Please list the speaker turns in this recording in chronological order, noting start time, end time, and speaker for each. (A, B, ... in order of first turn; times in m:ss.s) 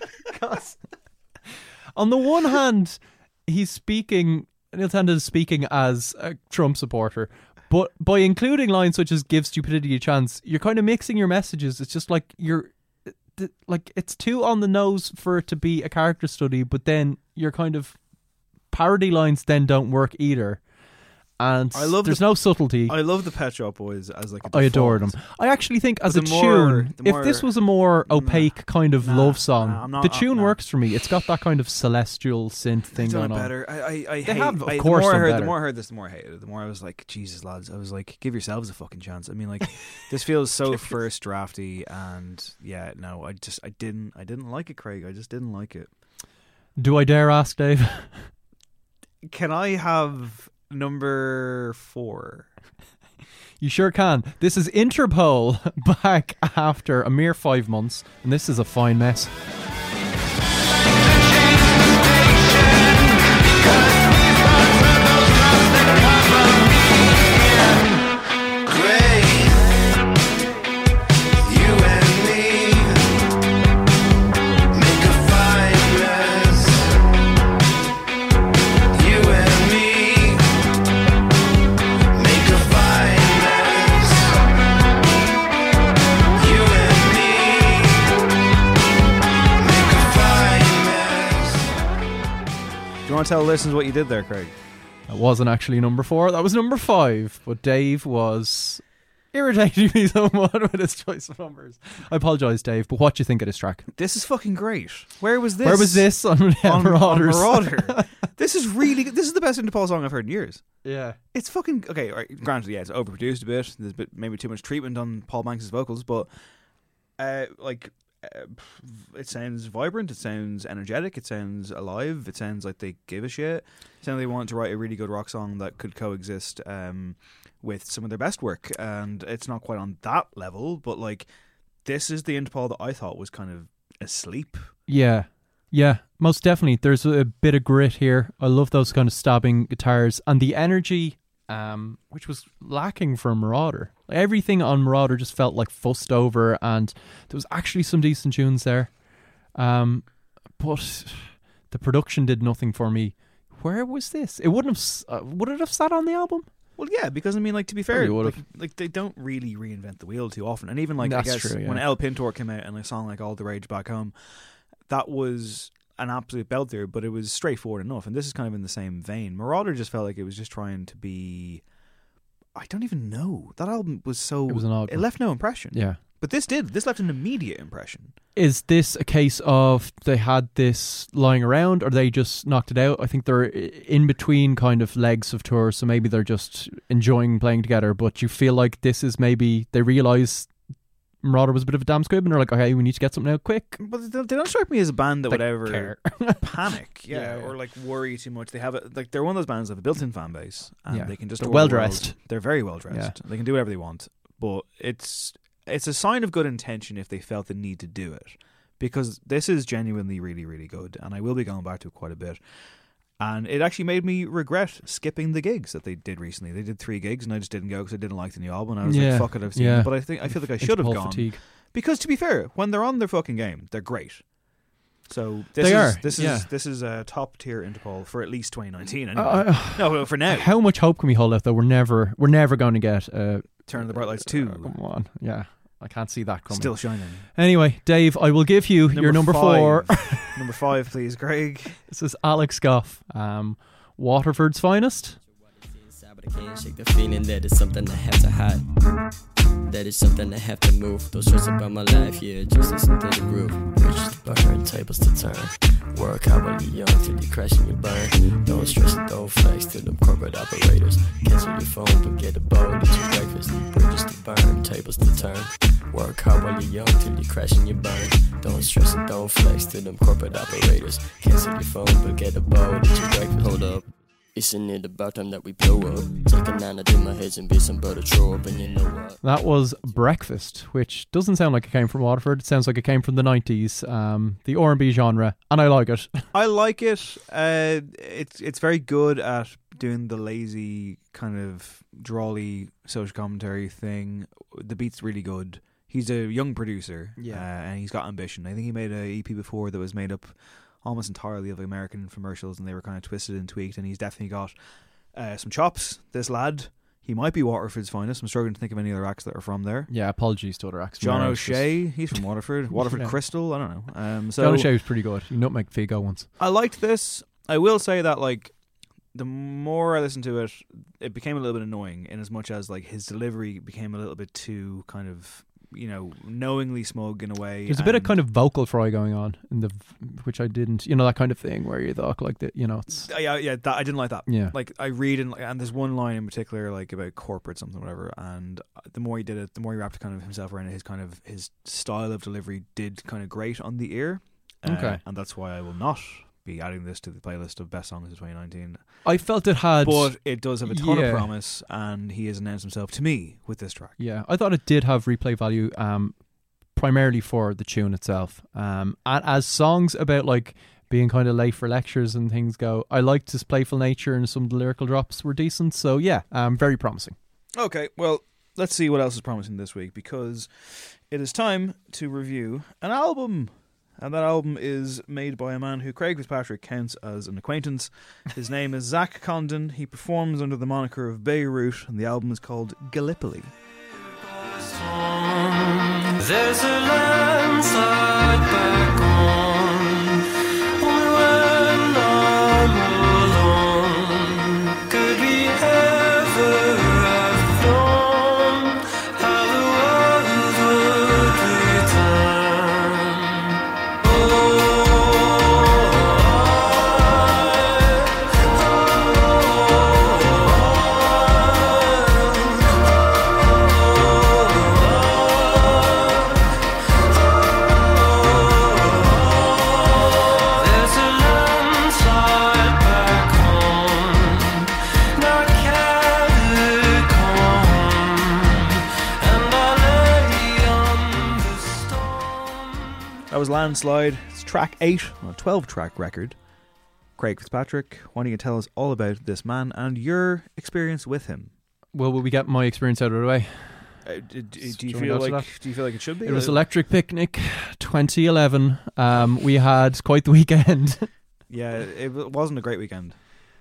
0:00.3-0:00.8 A
0:02.0-0:18.0 A
0:18.7-0:20.6 A
0:21.4-0:23.0 A
0:21.7-0:25.2 B
0:24.5-0:33.5 A
0:26.0-0:30.6 B
0:32.9-0:45.9 B
0:34.2-0:35.6 A
0:46.8-0:48.3 A
0:49.2-0:52.5 B
0:53.6-0:59.3 A
1:33.0-1:34.6 B
1:35.1-1:43.9 A
1:44.0-1:50.6 B
1:45.6-1:48.0 A
1:50.8-1:51.2 A
1:51.3-1:56.3 B
1:57.2-2:11.3 B
2:11.8-2:14.7 B
2:14.9-2:36.5 A
2:36.8-2:51.6 B
2:37.9-2:38.4 A
2:41.0-2:41.8 A
2:52.5-2:58.2 B
2:54.5-2:56.0 A
2:58.4-3:10.5 A
3:11.2-3:13.8 A
3:13.8-3:32.6 B
3:15.3-3:16.4 A
3:17.1-3:17.5 A
3:20.9-3:22.2 A
3:22.9-3:23.2 A
3:33.2-3:44.3 B
3:38.8-3:41.4 A
3:45.0-3:50.5 B
3:45.6-3:46.5 A
3:49.2-4:00.3 A
3:53.7-3:54.8 B
3:56.5-3:57.3 B
3:58.9-4:01.8 B
4:01.9-4:05.2 A
4:05.6-4:08.7 C
4:09.7-4:39.2 C
4:39.2-4:46.3 A
4:46.3-5:04.6 B
4:57.2-4:57.5 A
5:05.1-5:09.9 B
5:09.9-5:11.9 A
5:11.0-5:14.7 B
5:12.8-5:13.1 A
5:14.4-5:16.3 A
5:16.4-5:18.5 B
5:19.1-5:28.2 B
5:27.7-5:33.1 A
5:32.9-5:49.1 B
5:34.3-5:34.6 A
5:44.6-5:45.0 A
5:49.0-5:51.3 A
5:49.8-5:54.0 B
5:54.0-5:56.2 A
5:56.7-6:07.2 A
6:07.6-6:23.5 B
6:24.9-6:25.6 D
6:26.2-6:30.0 D
6:30.8-6:43.1 D
6:54.6-6:55.3 D
6:58.3-6:59.2 D
7:00.7-7:04.5 D
7:05.2-7:08.6 D
7:09.3-7:12.4 D
7:13.3-7:16.4 B
7:17.2-7:21.5 B
7:21.9-7:24.0 A
7:24.0-7:26.6 B
7:24.6-7:25.6 A
7:26.2-7:31.1 A
7:31.5-7:33.2 B